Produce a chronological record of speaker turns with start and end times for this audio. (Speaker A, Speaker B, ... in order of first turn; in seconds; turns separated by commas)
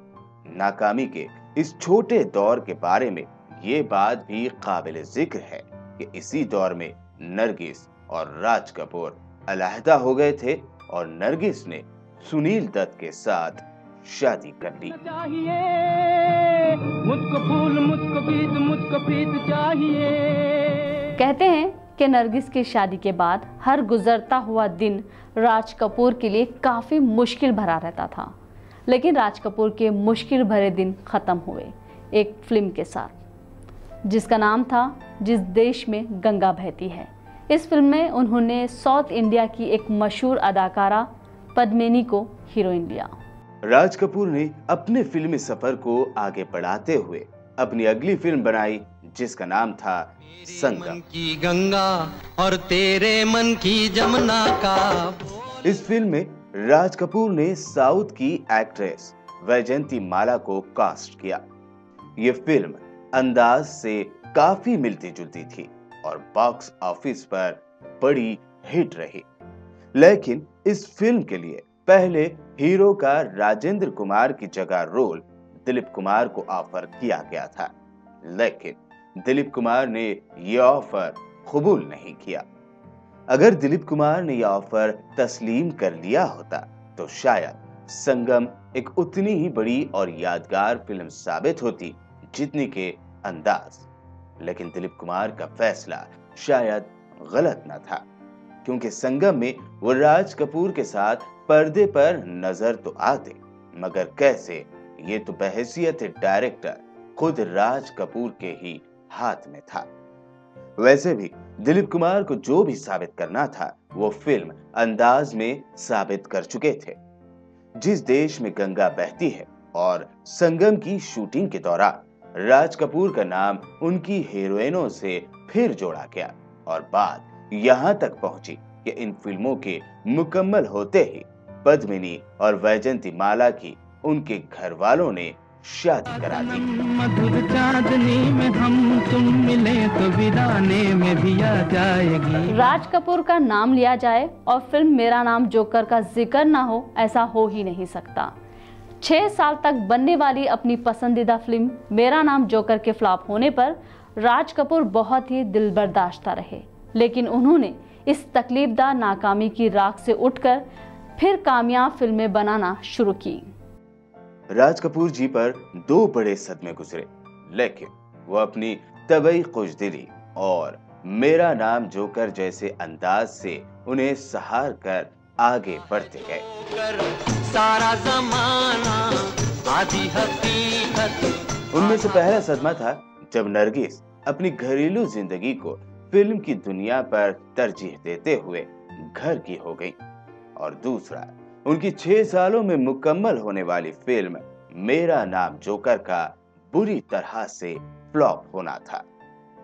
Speaker A: 0.5-14.9, Speaker B: 14.9-20.2, Speaker C: 21.2-28.3, Speaker C: 28.9-33.2, Speaker C: 34.1-43.1, Speaker A: 43.6-51.0, Speaker D: 50.4-55.6, Speaker A: 55.6-61.4, Speaker A: 62.2-69.2, Speaker A: 69.9-77.7, Speaker A: 78.2-82.4, Speaker A: 83.3-93.8, Speaker A: 94.4-98.0, Speaker A: 98.6-109.9, Speaker A: 110.8-117.0, Speaker A: 117.8-136.6, Speaker B: 136.2-142.4, Speaker D: 141.0-141.5, Speaker C: 142.5-148.3, Speaker C: 149.0-160.6, Speaker C: 161.2-163.5, Speaker A: 164.5-176.4, Speaker D: 176.0-182.6, Speaker A: 181.7-190.0, Speaker A: 190.6-199.0